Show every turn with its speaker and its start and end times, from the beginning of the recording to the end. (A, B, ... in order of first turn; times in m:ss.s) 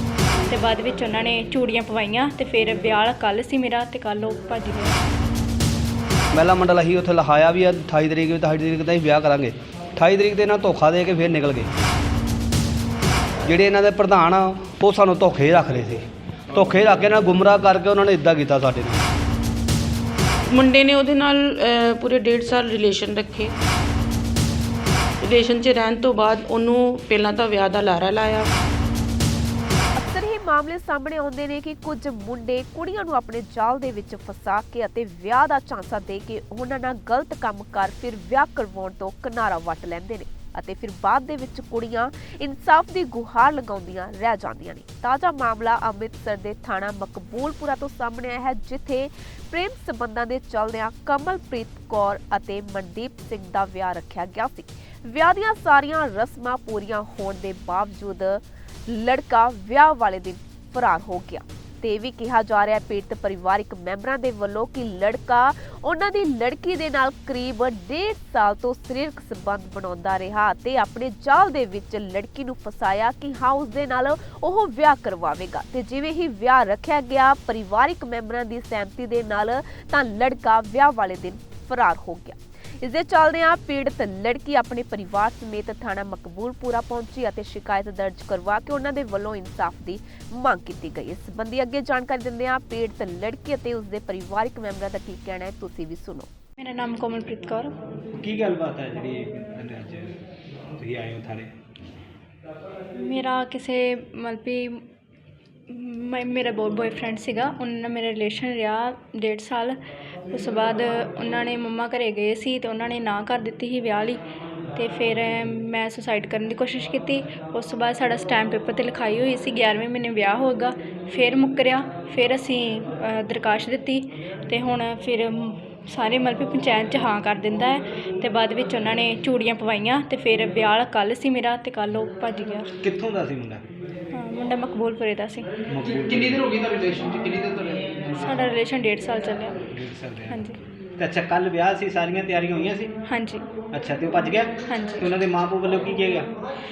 0:00.5-0:05.0 A
0:06.3-0:11.7 B
0:13.4-0:19.0 B
0:20.5-0:23.5 C
0:25.2-0:28.5 C
0:30.0-1:36.3 D
1:36.6-1:37.7 A
1:38.1-1:40.2 E
1:40.8-1:41.5 E
1:43.0-1:44.8 A
1:45.7-1:49.8 A
1:50.3-1:54.2 A
1:54.8-2:12.7 A
2:12.8-2:13.6 E
2:14.1-2:15.5 A
2:15.7-2:16.4 E
2:17.7-2:18.4 E
2:18.2-2:19.6 A
2:19.7-2:20.4 E
2:20.3-2:20.6 A
2:21.0-2:22.9 E
2:23.1-2:23.5 A
2:23.7-2:26.3 E
2:24.7-2:25.1 A